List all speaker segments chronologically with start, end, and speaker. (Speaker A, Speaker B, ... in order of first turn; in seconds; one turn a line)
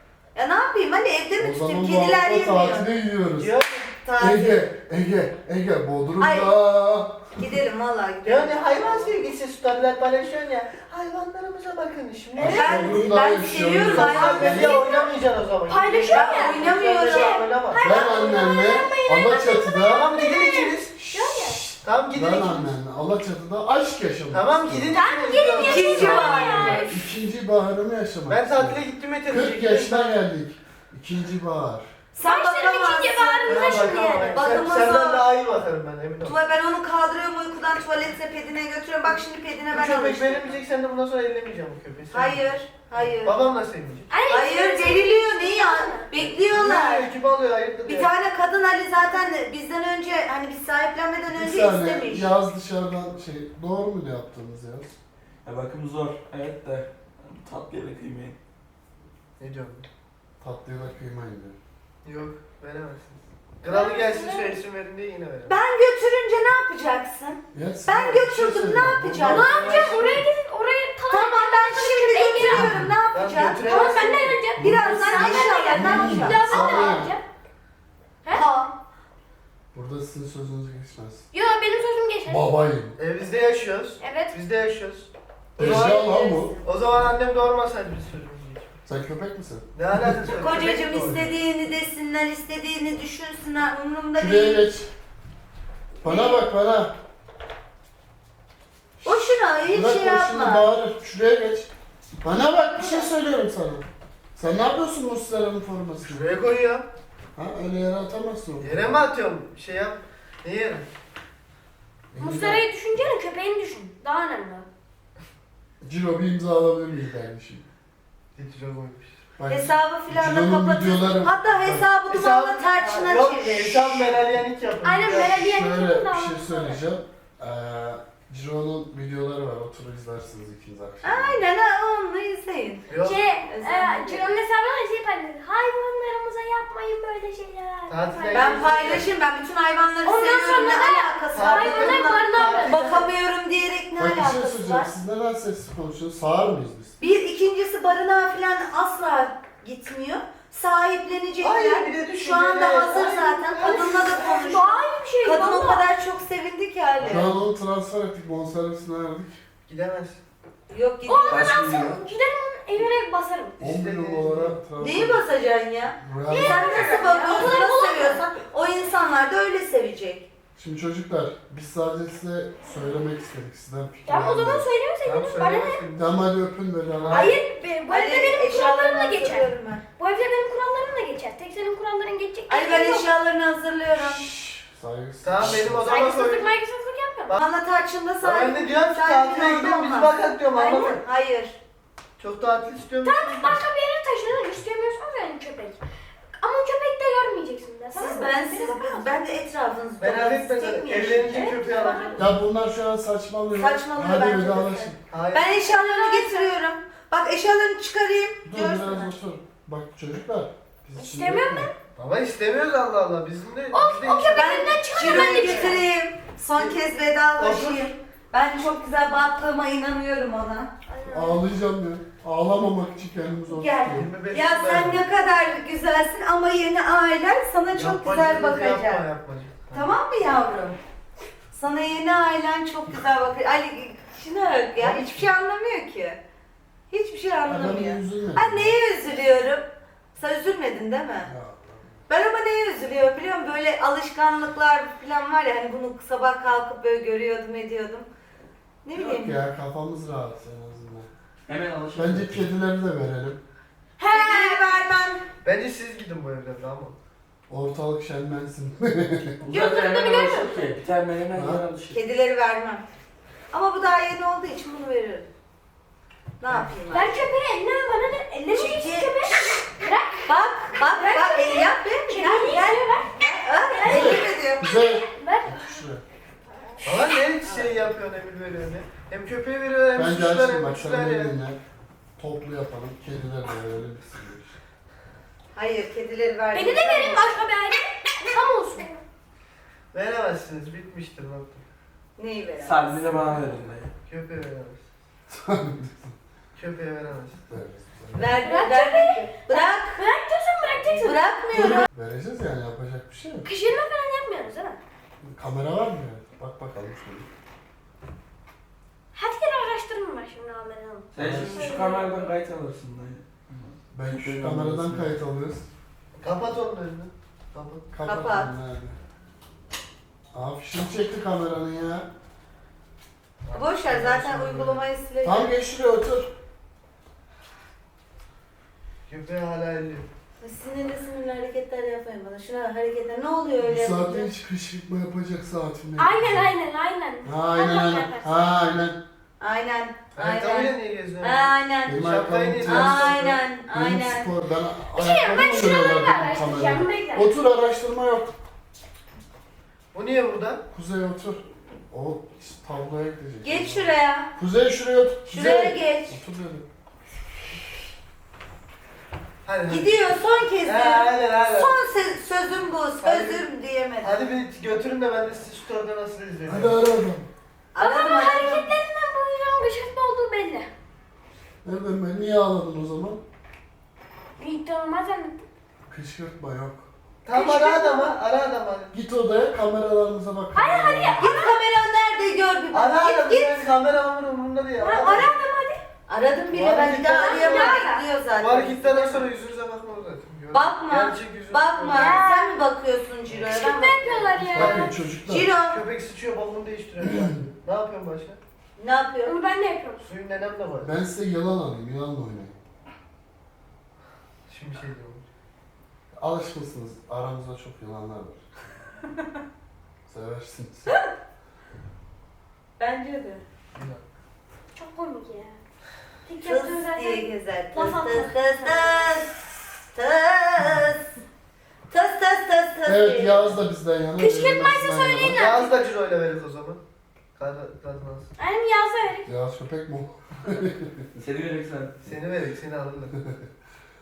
Speaker A: 0.3-2.9
Speaker B: 1.4-3.5
Speaker C: 3.4-3.9
Speaker A: 4.0-4.6
Speaker B: 4.2-7.4
Speaker A: 6.2-6.5
Speaker A: 7.3-9.2
Speaker C: 8.2-13.0
Speaker B: 12.4-14.8
Speaker A: 12.4-14.7
Speaker C: 13.8-18.1
Speaker D: 14.2-15.1
Speaker D: 15.7-21.6
Speaker A: 16.0-17.4
Speaker B: 17.8-20.1
Speaker C: 19.8-20.9
Speaker B: 21.0-25.0
Speaker C: 21.8-22.7
Speaker C: 24.3-26.4
Speaker D: 24.9-27.0
Speaker A: 25.6-26.9
Speaker B: 25.8-31.9
Speaker C: 28.3-30.2
Speaker A: 32.1-35.3
Speaker D: 32.2-34.5
Speaker C: 33.4-36.3
Speaker A: 36.2-40.6
Speaker C: 39.7-44.1
Speaker A: 42.1-43.4
Speaker D: 44.1-46.1
Speaker A: 44.3-47.1
Speaker C: 46.2-48.1
Speaker A: 47.8-52.3
Speaker B: 51.3-54.9
Speaker E: 55.4-58.4
Speaker C: 59.4-59.9
Speaker B: 60.4-61.6
Speaker C: 62.0-65.5
Speaker D: 63.7-64.5
Speaker A: 65.5-69.5
Speaker B: 67.5-70.0
Speaker D: 69.2-72.8
Speaker C: 69.3-70.2
Speaker A: 71.1-76.4
Speaker B: 72.5-73.0
Speaker C: 73.1-74.4
Speaker D: 73.6-77.2
Speaker B: 74.6-77.1
Speaker A: 78.3-78.7
Speaker B: 79.7-81.2
Speaker D: 81.3-82.4
Speaker B: 82.2-83.0
Speaker C: 83.0-88.7
Speaker D: 84.0-84.3
Speaker B: 85.6-86.5
Speaker D: 85.8-86.6
Speaker B: 88.8-90.2
Speaker C: 89.7-91.2
Speaker A: 90.3-94.7
Speaker B: 91.0-91.3
Speaker B: 94.2-94.9
Speaker B: 96.0-96.9
Speaker A: 96.1-96.4
Speaker A: 99.0-100.7
Speaker B: 99.7-101.7
Speaker B: 102.2-103.8
Speaker B: 104.3-106.3
Speaker C: 106.0-106.8
Speaker B: 107.3-109.0
Speaker C: 108.6-110.9
Speaker B: 112.1-112.6
Speaker D: 112.2-114.7
Speaker B: 115.8-117.6
Speaker C: 118.3-119.1
Speaker B: 119.4-121.8
Speaker A: 119.5-124.1
Speaker C: 122.1-125.3
Speaker D: 124.8-126.8
Speaker B: 125.1-131.4
Speaker A: 131.0-132.9
Speaker C: 132.9-133.2
Speaker D: 133.0-138.5
Speaker A: 133.5-134.2
Speaker C: 137.9-139.1
Speaker A: 138.3-144.9
Speaker D: 140.0-142.8
Speaker C: 141.3-143.1
Speaker B: 144.0-146.9
Speaker A: 147.0-157.3
Speaker C: 151.4-154.5
Speaker D: 153.6-155.8
Speaker C: 157.0-157.3
Speaker B: 157.0-159.4
Speaker C: 159.7-160.2
Speaker A: 160.7-161.6
Speaker D: 161.0-163.6
Speaker E: 161.3-162.0
Speaker C: 163.6-164.6
Speaker B: 163.6-165.2
Speaker A: 164.8-170.3
Speaker B: 166.0-167.1
Speaker D: 166.3-168.2
Speaker B: 170.6-174.7
Speaker D: 174.1-175.8
Speaker C: 175.0-176.1
Speaker B: 176.0-177.3
Speaker C: 177.0-177.3
Speaker D: 177.1-183.1
Speaker A: 177.9-179.8
Speaker A: 182.5-184.2
Speaker B: 183.9-186.1
Speaker C: 185.2-186.5
Speaker D: 185.8-187.3
Speaker A: 187.3-190.1
Speaker C: 188.2-191.0
Speaker D: 190.5-191.0
Speaker A: 190.7-191.6
Speaker C: 192.2-193.7
Speaker D: 193.0-195.8
Speaker D: 196.4-199.1
Speaker A: 197.9-202.1
Speaker C: 200.0-202.3
Speaker D: 201.3-202.2
Speaker B: 202.2-205.0
Speaker A: 203.5-209.1
Speaker C: 205.1-205.6
Speaker D: 205.6-206.5
Speaker B: 208.4-211.7
Speaker D: 210.9-211.7
Speaker C: 211.9-215.8
Speaker D: 213.7-215.8
Speaker A: 214.3-220.7
Speaker C: 217.4-217.9
Speaker D: 220.9-221.4
Speaker B: 221.1-224.1
Speaker A: 223.5-229.1
Speaker C: 223.9-225.0
Speaker C: 227.7-229.9
Speaker A: 229.7-230.8
Speaker A: 231.5-236.2
Speaker C: 234.8-235.1
Speaker A: 236.9-241.3
Speaker B: 237.4-238.8
Speaker B: 241.2-242.0
Speaker A: 242.1-248.1
Speaker A: 248.8-249.4
Speaker B: 248.9-251.1
Speaker E: 251.5-252.5
Speaker B: 251.9-253.4
Speaker D: 254.0-254.8
Speaker A: 254.1-255.2
Speaker C: 255.4-256.9
Speaker B: 257.5-259.4
Speaker E: 259.4-262.0
Speaker D: 259.5-260.6
Speaker B: 261.3-261.6
Speaker A: 261.9-262.8
Speaker A: 263.5-265.3
Speaker A: 266.4-267.2
Speaker C: 266.4-266.7
Speaker D: 266.9-275.8
Speaker A: 268.5-269.6
Speaker A: 270.2-274.7
Speaker B: 273.8-276.0
Speaker C: 276.8-281.3
Speaker B: 279.9-281.6
Speaker B: 282.2-284.5
Speaker A: 285.5-287.3
Speaker D: 286.5-289.0
Speaker C: 289.9-291.6
Speaker A: 292.2-293.0
Speaker E: 292.6-293.9
Speaker C: 294.1-294.8
Speaker B: 295.3-296.1
Speaker C: 296.5-297.5
Speaker B: 297.5-298.3
Speaker A: 298.1-300.0
Speaker D: 298.4-301.2
Speaker A: 300.9-301.9
Speaker B: 301.5-303.5
Speaker D: 303.4-304.8
Speaker B: 305.2-307.3
Speaker D: 309.1-312.3
Speaker E: 311.1-315.1
Speaker B: 311.2-311.7
Speaker B: 313.9-315.7
Speaker C: 316.2-317.9
Speaker B: 317.9-318.9
Speaker A: 318.0-318.5
Speaker B: 320.3-322.1
Speaker C: 323.4-324.9
Speaker A: 323.5-325.5
Speaker B: 325.2-326.3
Speaker C: 329.1-330.1
Speaker A: 330.4-334.3
Speaker B: 333.6-336.5
Speaker D: 336.0-338.4
Speaker B: 337.2-339.0
Speaker A: 339.4-342.0
Speaker C: 340.1-343.4
Speaker B: 341.9-343.1
Speaker A: 342.6-344.3
Speaker B: 343.7-348.3
Speaker D: 344.9-347.3
Speaker C: 349.9-350.6
Speaker B: 350.7-356.6
Speaker A: 353.4-354.3
Speaker A: 355.2-356.2
Speaker C: 359.4-359.9
Speaker A: 359.7-364.2
Speaker C: 360.6-361.8
Speaker C: 363.0-363.4
Speaker C: 364.0-366.8
Speaker B: 366.5-367.3
Speaker A: 367.7-368.7
Speaker D: 367.8-370.7
Speaker B: 371.6-373.2
Speaker D: 374.4-375.4
Speaker B: 375.9-376.9
Speaker C: 377.2-378.9
Speaker D: 377.3-378.1
Speaker B: 378.9-381.4
Speaker D: 380.5-381.6
Speaker A: 381.2-383.6
Speaker C: 382.7-385.4
Speaker D: 384.8-385.8
Speaker A: 386.1-389.3
Speaker C: 386.5-387.8
Speaker D: 387.1-388.0
Speaker C: 388.4-392.2
Speaker A: 390.5-395.8
Speaker D: 391.9-392.5
Speaker C: 393.3-393.6
Speaker D: 393.5-394.9
Speaker B: 394.5-395.5
Speaker C: 394.6-394.9
Speaker C: 395.6-398.4
Speaker B: 397.0-397.3
Speaker A: 398.8-399.3
Speaker D: 399.2-400.1
Speaker C: 400.0-400.9
Speaker B: 400.8-402.6
Speaker C: 404.5-405.2
Speaker B: 406.2-408.4
Speaker B: 410.1-410.9
Speaker A: 412.8-413.4
Speaker C: 413.7-414.0
Speaker D: 414.7-415.6
Speaker D: 416.2-419.0
Speaker A: 416.4-421.0
Speaker A: 421.9-423.5
Speaker B: 422.8-425.4
Speaker D: 424.2-425.8
Speaker C: 425.3-426.8
Speaker C: 427.4-428.3
Speaker D: 428.4-429.3
Speaker B: 429.2-431.1
Speaker E: 431.2-432.1
Speaker C: 432.0-433.1